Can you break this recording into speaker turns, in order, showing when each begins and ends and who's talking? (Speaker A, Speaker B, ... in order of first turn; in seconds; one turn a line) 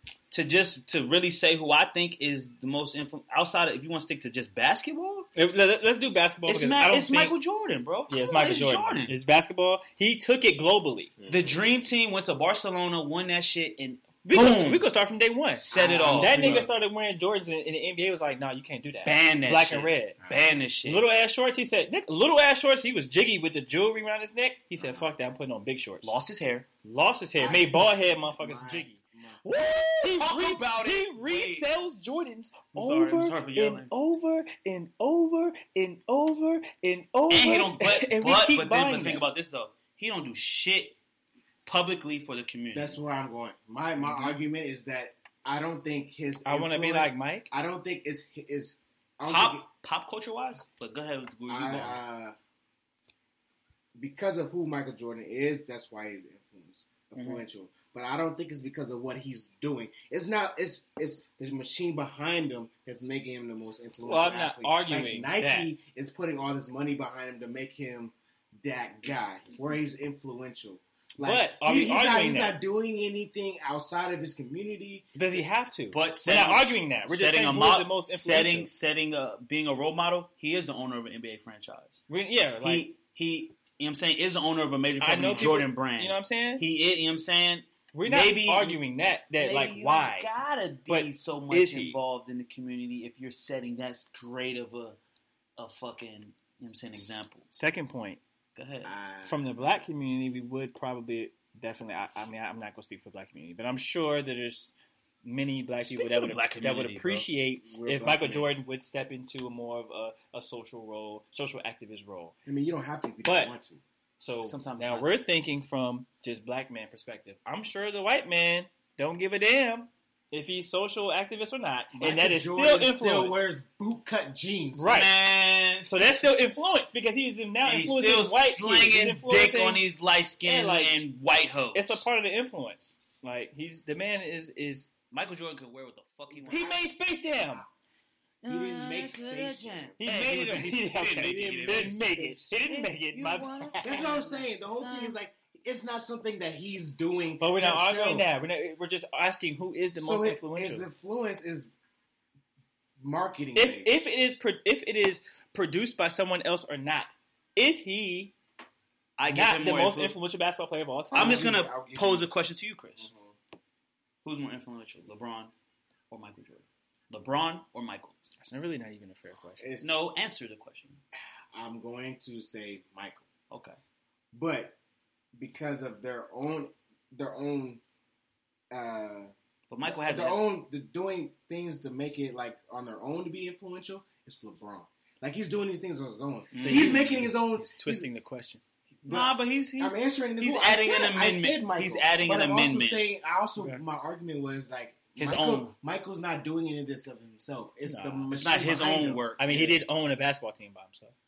Speaker A: 0.3-5.3
Speaker B: 5.3-7.3
Speaker A: 6.5-9.1
Speaker B: 8.1-11.1
Speaker C: 11.2-11.6
Speaker A: 11.3-14.9
Speaker B: 14.2-20.2
Speaker A: 15.6-16.7
Speaker C: 15.7-16.7
Speaker A: 19.0-21.1
Speaker C: 20.2-20.6
Speaker B: 20.8-26.1
Speaker C: 24.8-25.1
Speaker A: 26.0-26.7
Speaker B: 26.8-29.0
Speaker C: 27.4-29.4
Speaker A: 29.4-31.7
Speaker B: 29.6-39.2
Speaker A: 32.7-33.9
Speaker A: 37.3-41.0
Speaker A: 41.6-43.0
Speaker C: 42.7-49.6
Speaker B: 46.4-47.5
Speaker A: 49.3-52.0
Speaker C: 51.5-52.4
Speaker C: 54.0-75.2
Speaker A: 57.1-57.4
Speaker B: 64.0-65.7
Speaker B: 71.2-72.6
Speaker B: 75.2-78.7
Speaker A: 75.9-82.0
Speaker B: 82.1-82.9
Speaker A: 82.6-88.8
Speaker B: 85.0-86.6
Speaker B: 87.9-90.3
Speaker A: 89.4-95.0
Speaker B: 90.9-92.0
Speaker A: 95.6-97.5
Speaker B: 97.5-98.2
Speaker A: 98.5-98.9
Speaker C: 98.8-99.5
Speaker B: 99.2-112.3
Speaker A: 105.8-107.3
Speaker C: 107.6-108.5
Speaker C: 112.5-113.8
Speaker B: 113.2-113.5
Speaker B: 114.2-123.4
Speaker A: 114.4-115.1
Speaker C: 122.0-124.9
Speaker B: 124.8-125.1
Speaker A: 124.8-126.2
Speaker B: 125.8-129.8
Speaker A: 127.6-132.0
Speaker B: 130.4-130.9
Speaker B: 131.7-134.9
Speaker A: 135.1-136.8
Speaker C: 136.3-136.8
Speaker B: 136.5-137.6
Speaker A: 138.4-145.2
Speaker C: 138.4-140.1
Speaker B: 140.0-144.2
Speaker C: 143.8-148.3
Speaker B: 147.4-150.9
Speaker C: 149.9-151.7
Speaker C: 153.0-154.1
Speaker B: 153.5-158.3
Speaker A: 159.2-160.2
Speaker B: 159.3-161.4
Speaker C: 161.1-162.3
Speaker A: 161.1-163.1
Speaker C: 163.0-163.3
Speaker A: 164.2-165.5
Speaker A: 166.1-168.2
Speaker B: 168.4-169.7
Speaker C: 169.6-169.9
Speaker A: 169.8-171.0
Speaker C: 171.5-173.2
Speaker A: 173.5-173.8
Speaker C: 174.3-174.8
Speaker C: 175.4-177.8
Speaker C: 178.7-179.3
Speaker A: 179.7-180.4
Speaker C: 179.8-188.1
Speaker A: 186.5-187.3
Speaker B: 186.6-188.6
Speaker C: 189.0-199.2
Speaker A: 189.1-193.0
Speaker A: 195.2-195.7
Speaker B: 197.8-198.3
Speaker A: 198.3-199.8
Speaker B: 199.4-201.1